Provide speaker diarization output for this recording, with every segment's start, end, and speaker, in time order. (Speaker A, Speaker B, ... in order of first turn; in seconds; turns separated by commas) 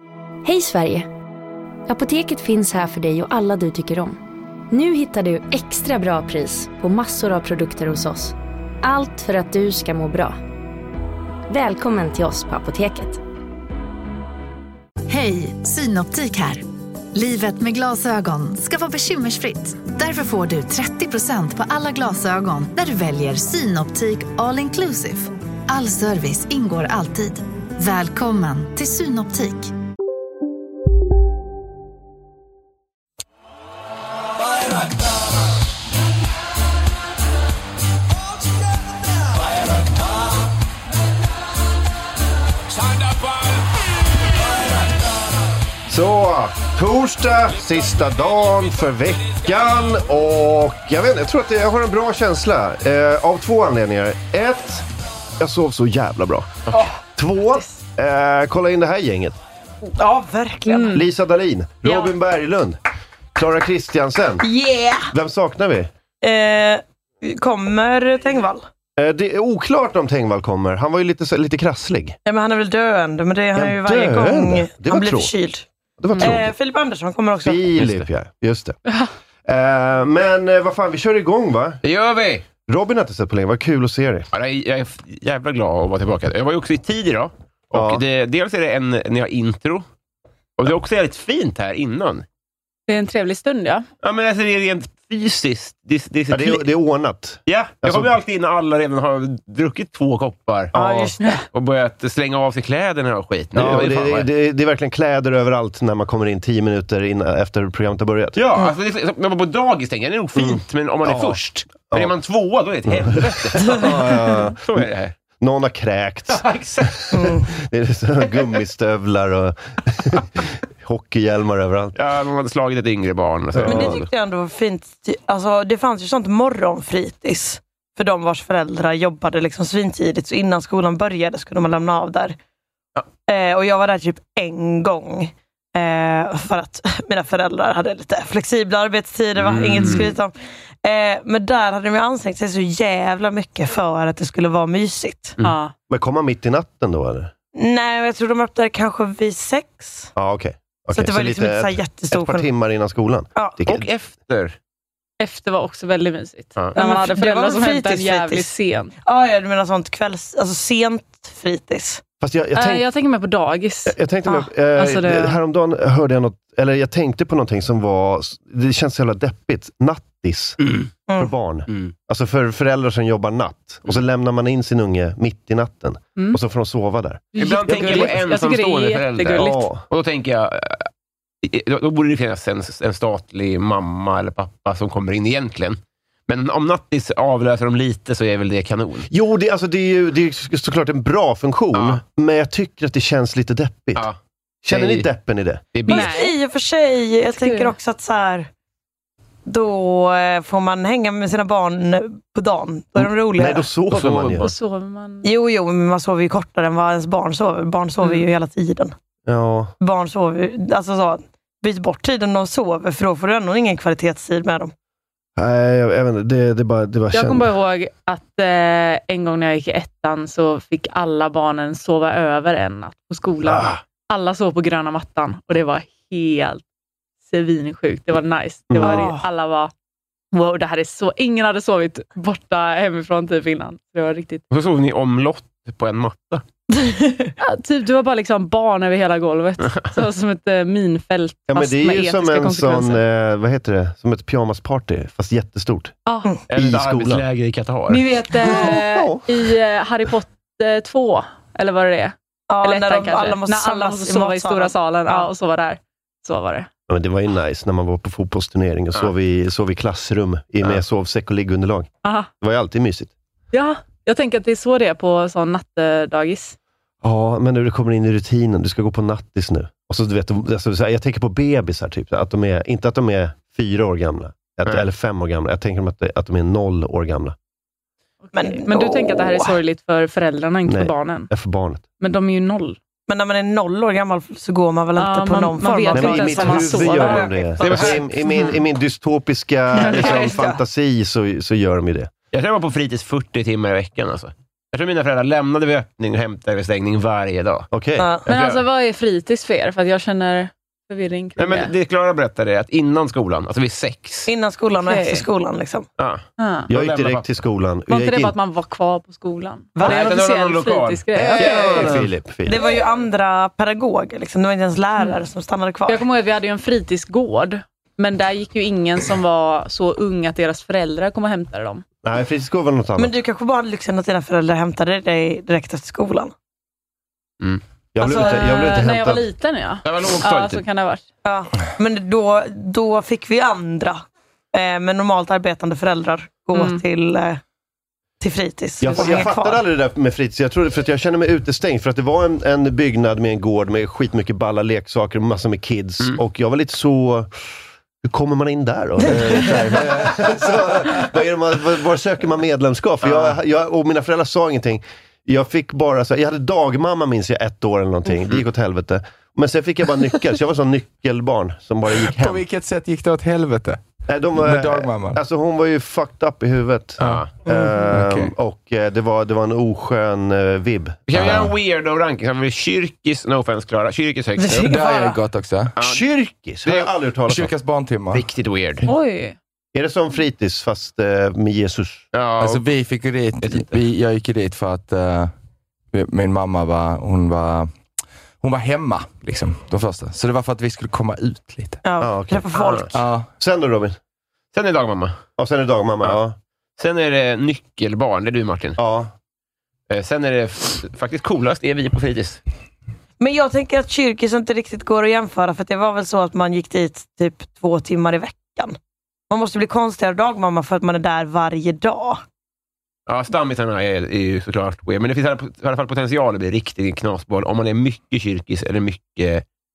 Speaker A: 0.4-1.1, Speaker A: 1.9-4.2, Speaker A: 4.7-10.4, Speaker A: 11.5-13.2, Speaker B: 15.1-29.7, Speaker C: 45.9-54.9, Speaker C: 55.4-56.6, Speaker C: 57.2-59.4, Speaker D: 59.8-61.0, Speaker E: 60.7-61.1, Speaker C: 60.9-62.8, Speaker E: 61.9-62.1, Speaker C: 63.4-64.5, Speaker D: 64.4-65.1, Speaker C: 65.1-65.9, Speaker D: 66.2-68.7, Speaker C: 69.0-72.2, Speaker D: 72.2-77.7, Speaker C: 73.5-75.3, Speaker C: 76.0-76.5, Speaker C: 77.4-78.8, Speaker F: 77.8-78.1, Speaker C: 79.5-81.8, Speaker F: 81.8-82.5, Speaker C: 82.7-84.3, Speaker F: 84.3-89.9, Speaker C: 87.7-88.0, Speaker F: 90.6-92.2, Speaker E: 92.9-93.9, Speaker F: 94.0-96.6, Speaker C: 96.3-98.1, Speaker F: 97.5-104.3, Speaker D: 100.7-101.3, Speaker C: 103.5-108.4, Speaker F: 108.4-115.2, Speaker C: 110.4-111.4, Speaker C: 111.9-112.1, Speaker C: 112.9-114.9, Speaker C: 115.4-116.5, Speaker F: 116.3-117.3, Speaker D: 117.1-117.5, Speaker C: 117.5-122.0, Speaker F: 122.0-124.1, Speaker C: 123.5-124.0, Speaker D: 123.7-132.4, Speaker D: 133.3-145.4, Speaker F: 139.4-140.2, Speaker E: 145.4-145.7, Speaker C: 145.9-147.3, Speaker D: 147.6-150.1, Speaker C: 150.2-153.9, Speaker D: 150.9-152.5, Speaker F: 153.7-154.6, Speaker E: 155.2-158.9, Speaker D: 156.8-158.5, Speaker D: 159.1-162.0, Speaker C: 162.2-162.9, Speaker E: 162.6-163.9, Speaker C: 163.9-170.6, Speaker E: 164.8-165.4, Speaker F: 170.6-170.9, Speaker D: 171.1-171.3, Speaker C: 171.2-178.1, Speaker E: 177.3-179.7, Speaker F: 177.4-180.9, Speaker C: 179.4-179.8, Speaker F: 181.4-189.1, Speaker C: 189.1-194.1, Speaker F: 191.7-192.0, Speaker F: 193.9-195.1, Speaker C: 194.7-195.7, Speaker F: 195.7-196.2, Speaker D: 195.9-198.5, Speaker E: 195.9-196.4, Speaker E: 197.3-197.8, Speaker D: 199.5-203.7, Speaker C: 203.0-204.5, Speaker F: 203.9-204.5, Speaker E: 204.4-205.3, Speaker D: 205.2-208.9, Speaker E: 208.0-208.3, Speaker C: 209.3-209.7, Speaker D: 209.8-214.7, Speaker C: 215.4-217.5, Speaker E: 217.1-226.6, Speaker C: 223.4-223.8, Speaker E: 227.3-229.7, Speaker C: 228.7-229.0, Speaker D: 228.8-229.2, Speaker E: 230.3-234.4, Speaker F: 234.5-236.4, Speaker D: 236.7-237.3, Speaker E: 237.4-243.0, Speaker C: 241.5-246.0, Speaker E: 246.1-246.3, Speaker F: 246.5-248.1, Speaker C: 246.5-247.2, Speaker E: 247.9-256.7, Speaker C: 248.4-249.3, Speaker D: 252.5-255.3, Speaker C: 256.9-261.9, Speaker E: 262.0-262.3, Speaker C: 262.4-263.1, Speaker E: 263.5-266.6, Speaker C: 267.0-277.4, Speaker E: 278.2-281.3, Speaker D: 278.3-279.5, Speaker C: 280.7-281.8, Speaker E: 282.0-282.8, Speaker D: 283.1-288.0, Speaker E: 285.0-287.5, Speaker C: 285.9-292.1, Speaker F: 287.6-288.1, Speaker E: 288.2-288.6, Speaker E: 289.8-290.4, Speaker F: 292.3-297.7, Speaker C: 297.7-298.1, Speaker D: 298.0-298.2, Speaker E: 298.3-301.7, Speaker F: 298.3-298.6, Speaker F: 301.4-304.3, Speaker D: 304.3-305.9, Speaker E: 304.8-305.2, Speaker F: 306.0-307.4, Speaker E: 306.4-306.7, Speaker C: 306.7-308.4, Speaker E: 307.9-312.0, Speaker D: 309.8-310.1, Speaker F: 309.8-312.1, Speaker C: 311.1-312.6, Speaker D: 311.5-311.9, Speaker D: 312.5-316.0, Speaker E: 315.9-321.9, Speaker C: 322.0-323.2, Speaker D: 323.0-326.3, Speaker C: 327.9-329.3, Speaker E: 328.0-331.0, Speaker F: 329.9-330.6, Speaker D: 331.2-334.0, Speaker D: 334.5-337.4, Speaker E: 336.5-336.8, Speaker D: 338.2-339.6, Speaker C: 338.8-347.3, Speaker C: 348.0-362.4, Speaker D: 349.0-349.7, Speaker F: 353.0-353.4, Speaker G: 362.1-363.8, Speaker C: 364.1-371.5, Speaker G: 364.4-365.2, Speaker F: 367.0-367.3, Speaker G: 367.0-368.3, Speaker F: 371.1-374.7, Speaker D: 374.4-375.2, Speaker G: 374.7-375.7, Speaker F: 375.8-376.0, Speaker C: 375.8-377.5, Speaker F: 376.6-376.9, Speaker G: 377.3-378.2, Speaker F: 378.1-378.9, Speaker E: 378.9-379.4, Speaker C: 379.7-382.1, Speaker F: 382.1-382.6, Speaker G: 382.4-385.3, Speaker F: 383.4-383.8, Speaker G: 385.9-387.7, Speaker G: 388.4-391.8, Speaker D: 391.8-393.0, Speaker C: 392.0-394.0, Speaker G: 392.9-393.3, Speaker F: 394.5-395.2, Speaker C: 395.4-396.4, Speaker F: 396.8-398.8, Speaker C: 398.8-399.1, Speaker F: 399.9-402.4, Speaker D: 403.2-408.8, Speaker D: 409.3-412.2, Speaker F: 413.1-419.4